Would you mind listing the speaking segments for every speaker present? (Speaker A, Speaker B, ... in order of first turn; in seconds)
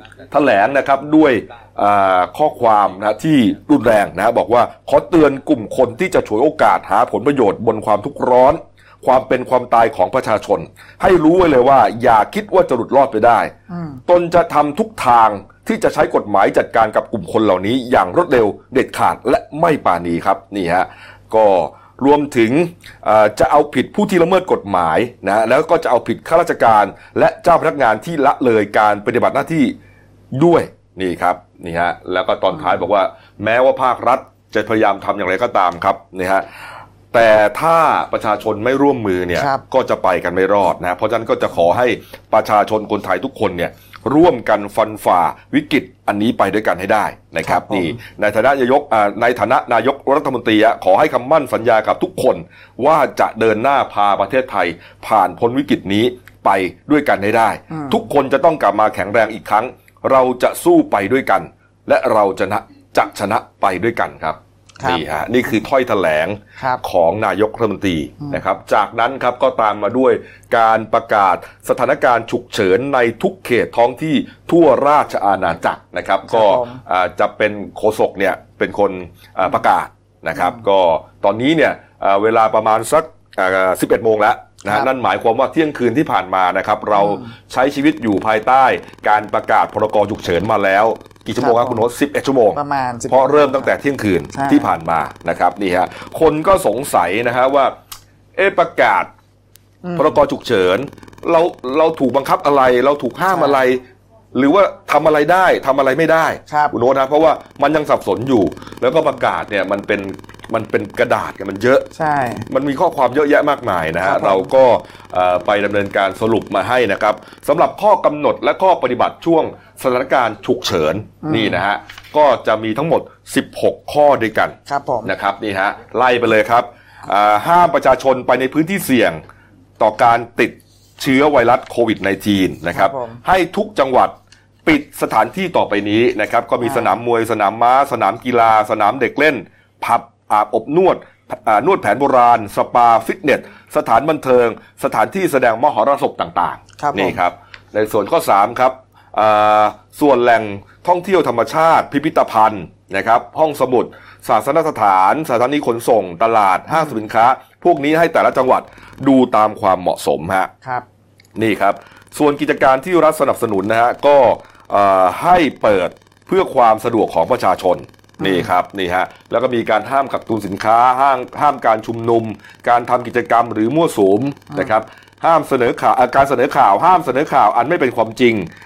Speaker A: 0.3-13.5, 14.1-29.8, 30.3-36.4, 37.1-97.7, 98.3-99.1, 100.0-111.8, 112.5-129.2, 129.8-134.1, 134.7-160.5, 161.3-178.5
Speaker B: 13.7-14.0, 39.4-39.6, 47.4-48.0, 57.7-58.0, 76.3-76.8, 80.3-80.6, 86.9-87.3, 91.4-91.8, 92.5-93.7, 94.3-94.8, 99.8-100.2, 103.3-103.6, 106.5-106.7, 111.9-112.5, 114.0-114.5, 121.2-121.6, 124.7-125.1, 132.7-133.2, 136.6-137.0, 146.8-147.2, 168.2-168.5